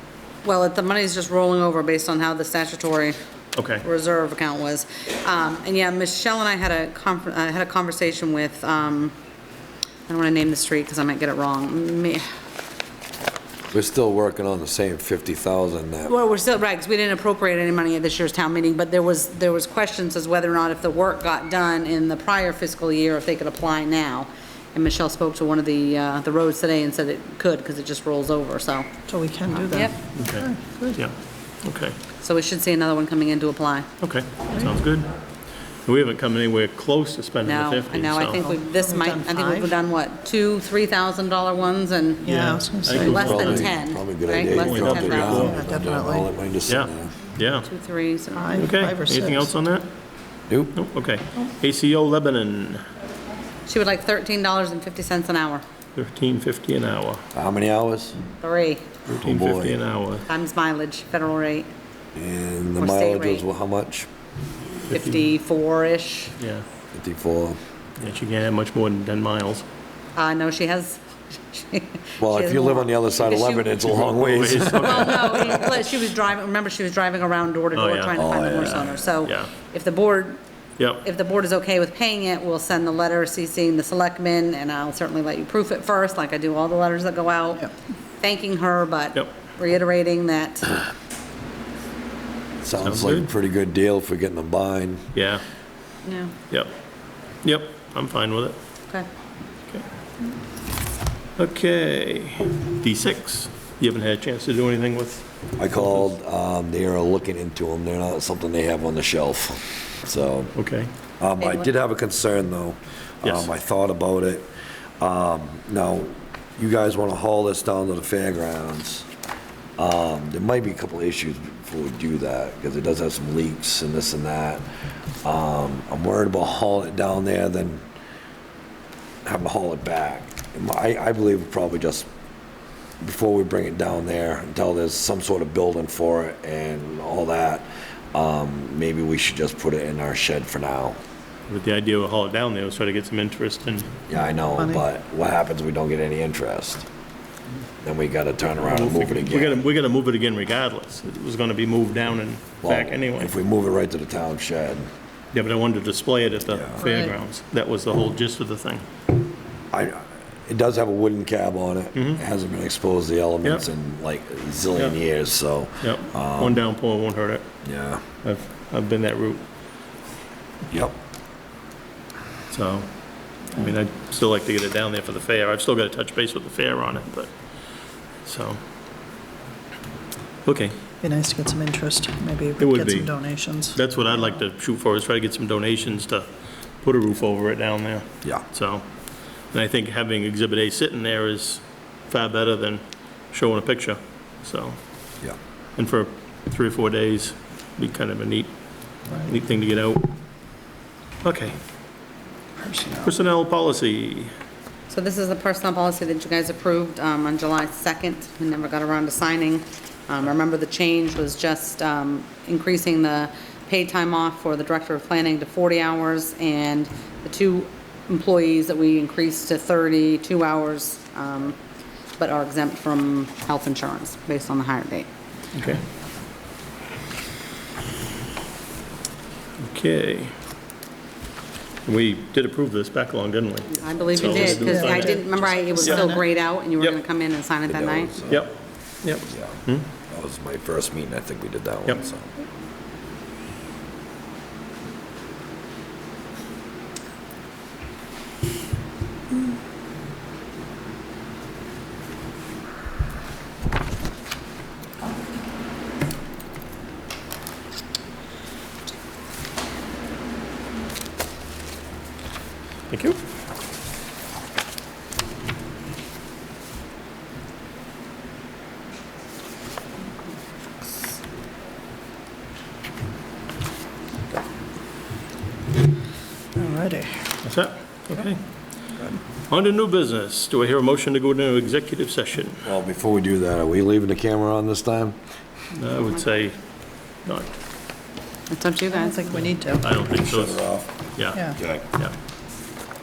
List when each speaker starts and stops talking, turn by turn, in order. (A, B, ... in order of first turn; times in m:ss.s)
0:00.4-0:03.2 A
0:03.5-0:03.8 B
0:03.8-0:09.1 A
0:10.1-0:12.2 A
0:13.7-0:16.1 C
0:16.0-0:29.0 A
0:29.1-0:31.0 D
0:29.5-0:30.0 A
0:30.1-0:32.0 B
0:32.2-0:33.9 A
0:34.0-0:35.1 B
0:35.8-0:38.4 B
0:37.4-0:42.3 A
0:38.4-0:39.7 D
0:42.2-0:43.3 D
0:42.2-0:43.7 B
0:42.9-0:45.4 A
0:43.0-0:47.1 C
0:44.5-0:45.6 B
0:45.3-0:46.3 D
0:46.7-0:47.7 B
0:47.6-0:48.6 A
0:48.4-0:49.5 D
0:48.6-0:49.9 B
0:50.5-0:50.8 C
0:50.7-0:52.8 B
0:53.7-0:55.6 A
0:56.0-0:57.2 B
0:57.3-0:58.2 C
0:58.4-0:58.9 A
0:59.1-0:59.8 C
0:59.1-1:00.3 B
1:00.3-1:01.7 A
1:02.1-1:04.1 C
1:02.8-1:03.4 A
1:04.9-1:05.2 B
1:04.9-1:06.3 A
1:06.4-1:06.6 B
1:06.9-1:07.6 C
1:08.0-1:09.6 B
1:10.2-1:13.8 A
1:12.2-1:15.2 C
1:13.8-1:15.7 B
1:14.8-1:20.4 A
1:17.7-1:19.5 B
1:18.2-1:19.0 C
1:20.8-1:21.0 B
1:21.0-1:30.7 A
1:32.6-1:35.0 C
1:32.8-1:33.3 B
1:35.1-1:35.4 B
1:36.0-1:36.3 A
1:37.4-1:38.6 B
1:41.4-1:46.1 B
1:45.6-1:50.5 C
1:50.5-1:50.9 B
1:51.2-1:54.5 C
1:51.4-1:51.7 A
1:53.2-1:53.5 B
1:55.0-1:59.1 C
1:59.8-2:04.6 C
2:05.2-2:07.8 C
2:09.2-2:12.1 C
2:13.0-2:21.0 C
2:21.5-2:23.9 B
2:24.1-2:26.8 C
2:27.8-2:29.6 C
2:28.6-2:33.3 B
2:32.6-2:34.9 C
2:35.3-2:38.8 B
2:36.5-2:36.9 C
2:39.7-2:46.6 C
2:41.9-2:42.2 B
2:45.8-2:47.4 B
2:47.6-2:48.0 C
2:48.2-2:49.4 B
2:50.7-2:50.9 C
2:52.5-2:52.9 B
2:53.5-2:57.3 B
2:58.2-2:58.6 B
3:00.4-3:00.8 B
3:01.0-3:03.8 D
3:02.6-3:03.1 B
3:03.7-3:06.3 B
3:06.8-3:08.8 B
3:09.5-3:14.8 B
3:15.8-3:18.5 B
3:19.1-3:20.1 B
3:21.2-3:21.6 B
3:22.6-3:23.1 D
3:23.0-3:24.3 B
3:24.9-3:41.6 A
3:42.2-3:45.1 A
3:45.5-3:45.8 B
3:49.6-3:50.3 B
3:51.8-3:56.2 B
3:53.8-3:58.1 A
3:54.4-3:56.2 D
3:57.7-3:58.5 C
3:58.3-3:59.9 B
3:59.3-4:02.3 C
4:22.9-4:23.2 B
4:36.5-4:37.4 D
4:37.4-4:38.4 B
4:38.9-4:39.2 D
4:39.5-4:42.6 B
4:42.6-4:45.2 C
4:45.7-4:46.6 B
4:47.2-4:47.5 B
4:48.5-4:49.4 A
4:48.9-4:49.9 D
4:49.8-4:50.6 B
4:50.1-4:50.9 C
4:51.2-4:52.1 B
4:51.6-4:51.8 C